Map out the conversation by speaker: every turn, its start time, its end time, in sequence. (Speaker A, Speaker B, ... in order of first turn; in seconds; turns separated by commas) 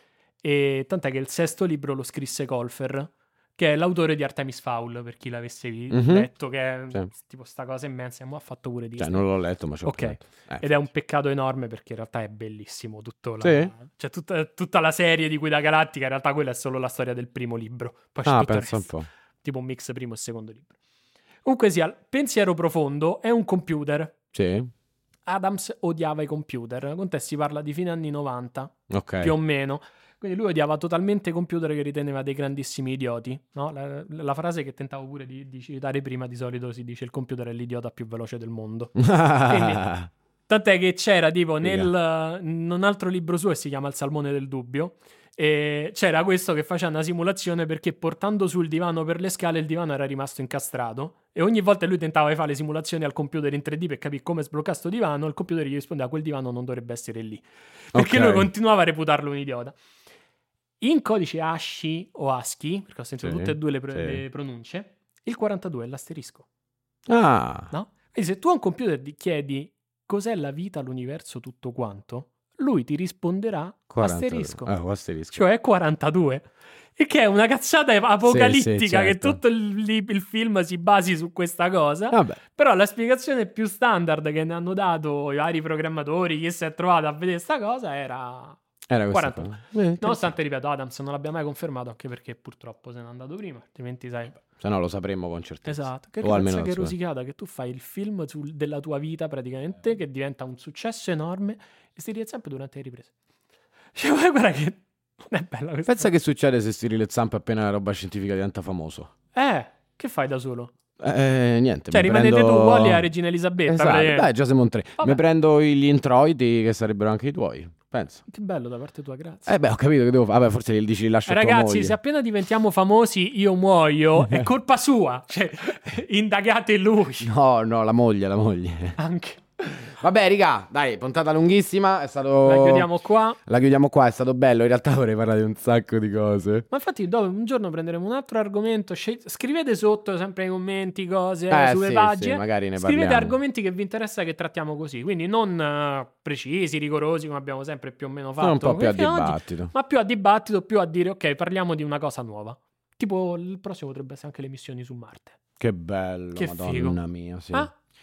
Speaker A: 0.4-9.2, Speaker B: 5.9-6.3, Speaker B: 9.0-10.7, Speaker A: 9.8-18.9, Speaker B: 13.4-13.7, Speaker B: 18.2-19.1, Speaker A: 19.4-20.7, Speaker A: 21.4-24.2, Speaker B: 24.3-24.7, Speaker A: 25.2-39.9, Speaker B: 28.9-29.3, Speaker B: 39.0-40.1, Speaker A: 40.5-59.8, Speaker B: 41.6-41.9, Speaker B: 57.9-58.5, Speaker A: 60.8-66.5, Speaker B: 63.2-64.2, Speaker B: 67.1-67.7, Speaker A: 67.7-74.7, Speaker B: 73.9-75.4, Speaker A: 75.3-88.6, Speaker B: 78.2-79.4, Speaker B: 82.1-82.4, Speaker B: 88.9-90.3, Speaker A: 89.1-94.4, Speaker B: 94.5-96.9, Speaker A: 95.7-103.1, Speaker A: 104.0-106.1, Speaker B: 105.9-109.1, Speaker A: 109.3-110.7, Speaker B: 111.0-113.1, Speaker A: 111.9-114.3, Speaker B: 113.7-118.2, Speaker A: 118.3-119.5, Speaker B: 119.5-122.0, Speaker A: 121.3-127.3, Speaker B: 127.2-129.0, Speaker A: 129.0-129.9, Speaker B: 129.9-132.9, Speaker A: 132.4-133.4, Speaker B: 133.4-136.7, Speaker A: 136.7-155.4, Speaker B: 141.5-143.3, Speaker B: 148.4-149.7, Speaker B: 155.6-157.7, Speaker A: 156.3-157.0